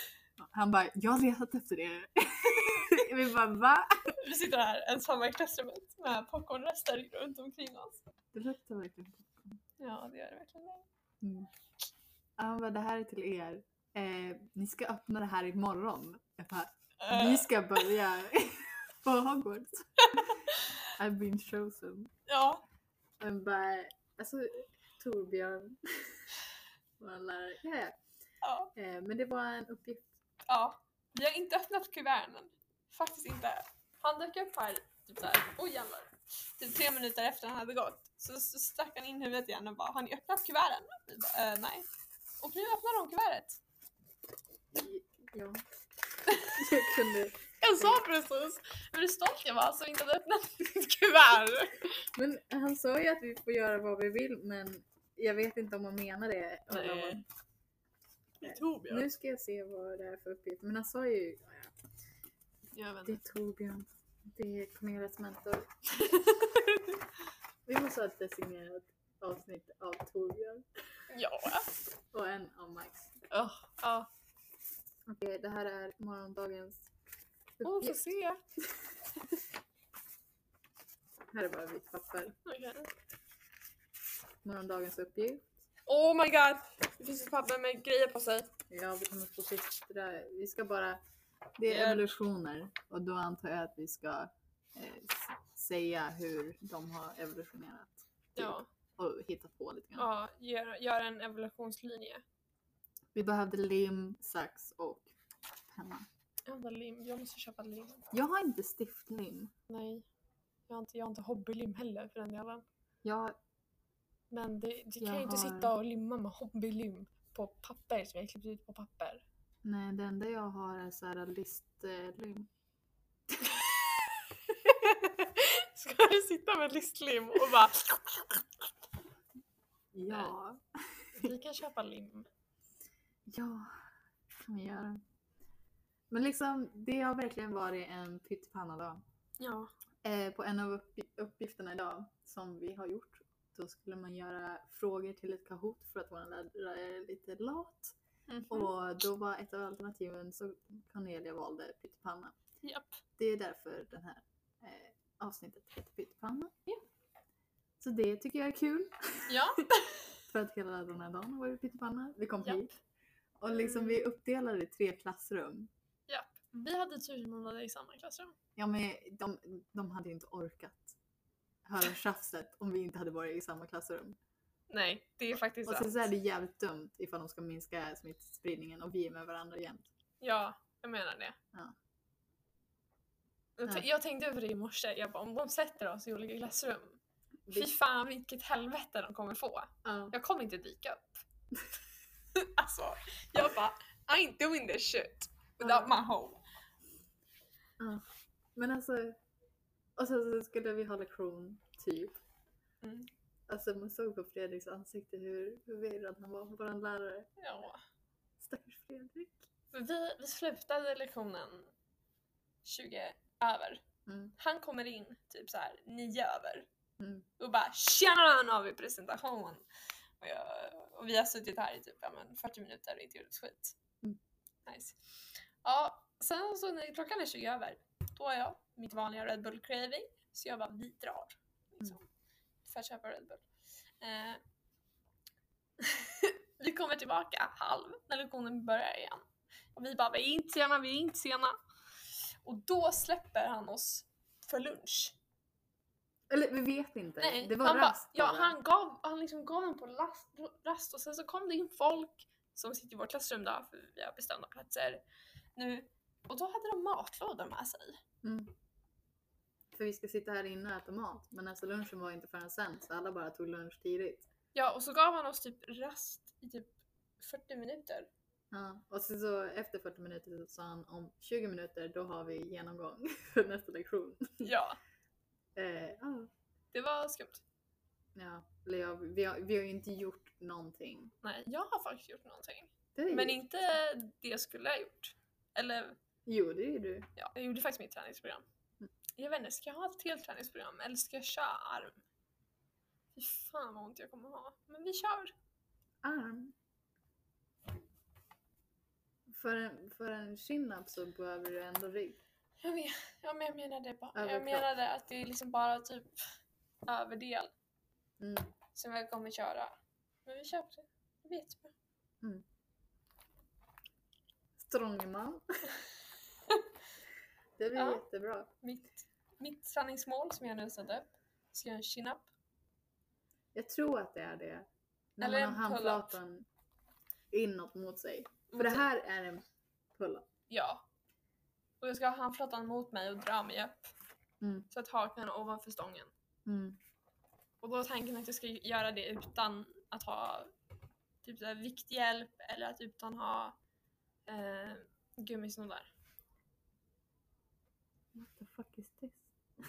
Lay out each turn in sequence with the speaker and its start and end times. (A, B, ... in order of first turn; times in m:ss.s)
0:00.4-0:04.1 A
0:04.2-0:08.0 B
0:08.3-0:09.6 A
0:09.8-0:10.8 B
0:11.2-0:11.5 A
0:12.4-0:20.3 A
0:17.0-0:17.5 B
0:20.0-0:20.6 B
0:21.0-0:22.1 A
0:22.3-0:22.6 B
0:23.2-0:26.2 A
0:27.0-0:27.9 A
0:28.4-0:28.7 B
0:28.7-0:30.2 A
0:30.5-0:41.9 B
0:42.4-0:43.6 B
0:44.7-0:45.6 A
0:46.3-0:46.6 B
0:46.5-0:48.0 A
0:47.6-0:51.9 B
0:52.2-0:57.2 A
0:56.7-0:57.2 B
0:58.4-0:59.1 B
0:58.4-1:01.7 A
1:02.7-1:03.2 B
1:03.0-1:05.7 A
1:06.0-1:07.0 B
1:07.6-1:10.6 A
1:11.1-1:11.7 B
1:12.1-1:13.2 A
1:13.3-1:14.1 B
1:15.1-1:16.9 A
1:17.6-1:18.1 A
1:17.6-1:18.4 B
1:21.3-1:22.4 A
1:22.4-1:22.9 B
1:24.4-1:25.4 A
1:25.9-1:28.5 B
1:28.7-1:31.0 A
1:31.6-1:40.1 A
1:31.7-1:32.1 B
1:38.4-1:38.7 B
1:40.0-1:42.2 B
1:43.1-1:45.1 A
1:45.7-1:46.0 A
1:46.5-1:48.0 B
1:48.1-1:49.5 A
1:49.7-1:50.0 B
1:50.7-1:52.6 B
1:53.0-1:53.3 A
1:54.3-1:59.2 B
1:55.0-1:55.7 A
1:59.6-2:02.5 A
2:03.5-2:08.5 B
2:09.9-2:10.6 A
2:11.2-2:12.3 B
2:13.3-2:13.7 A
2:14.3-2:15.0 A
2:16.1-2:19.0 A
2:19.4-2:19.7 B
2:20.0-2:28.0 A
2:28.3-2:28.7 B
2:28.5-2:32.4 A
2:32.6-2:33.0 B
2:33.2-2:36.5 A
2:37.8-2:39.4 A
2:39.3-2:40.0 B
2:40.3-2:42.7 A
2:42.4-2:42.7 B
2:43.4-2:45.7 A
2:43.5-2:44.0 B
2:46.1-2:48.3 B
2:48.6-2:51.0 A
2:51.6-2:54.2 A
2:54.7-2:56.1 B
2:55.6-2:59.9 A
3:00.2-3:01.4 B
3:03.6-3:07.0 B
3:07.4-3:07.7 A
3:07.5-3:11.2 B
3:09.8-3:10.1 A
3:12.3-3:16.4 B
3:15.6-3:15.9 A
3:18.6-3:19.2 A
3:20.0-3:22.2 A
3:22.8-3:23.1 B
3:23.5-3:27.3 A
3:27.4-3:27.8 B
3:28.4-3:29.4 A
3:29.7-3:31.7 B
3:32.6-3:33.8 B
3:34.0-3:34.3 A
3:34.4-3:36.7 B
3:37.0-3:37.3 A
3:37.4-3:39.6 B
3:40.2-3:43.7 B
3:44.6-3:45.0 B
3:45.6-3:52.0 B
3:52.6-3:53.4 B
3:54.0-3:54.4 B
3:55.8-4:01.6 B
4:02.4-4:05.2 B
4:06.3-4:08.5 A
4:07.2-4:15.0 B
4:15.6-4:18.0 B
4:18.2-4:18.5 A
4:19.7-4:24.3 A
4:24.5-4:28.1 B
4:28.5-4:34.5 A
4:34.4-4:34.8 B
4:35.6-4:36.3 A
4:36.7-4:37.4 B
4:38.1-4:41.1 A
4:41.2-4:46.0 B
4:43.0-4:43.6 A
4:46.2-4:47.1 A
4:47.2-4:48.4 B
4:49.2-4:52.0 B
4:53.1-4:55.3 B
4:56.0-4:56.5 A
4:59.3-5:02.2 A
5:02.6-5:06.1 B
5:04.1-5:04.7 A
5:06.8-5:07.5 B
5:08.2-5:08.5 A
5:08.7-5:09.7 B
5:10.2-5:11.7 B
5:14.6-5:15.4 A
5:17.6-5:18.5 A
5:17.7-5:18.0 B
5:18.6-5:22.3 B
5:23.5-5:26.4 A
5:25.2-5:26.2 B
5:27.3-5:30.3 A
5:28.5-5:28.8 B
5:30.5-5:30.8 B
5:31.8-5:33.9 B
5:34.4-5:34.7 A
5:34.7-5:36.1 B
5:36.4-5:36.8 A
5:37.6-5:40.5 B
5:41.2-5:43.6 B
5:44.2-5:45.9 B
5:48.1-5:49.3 A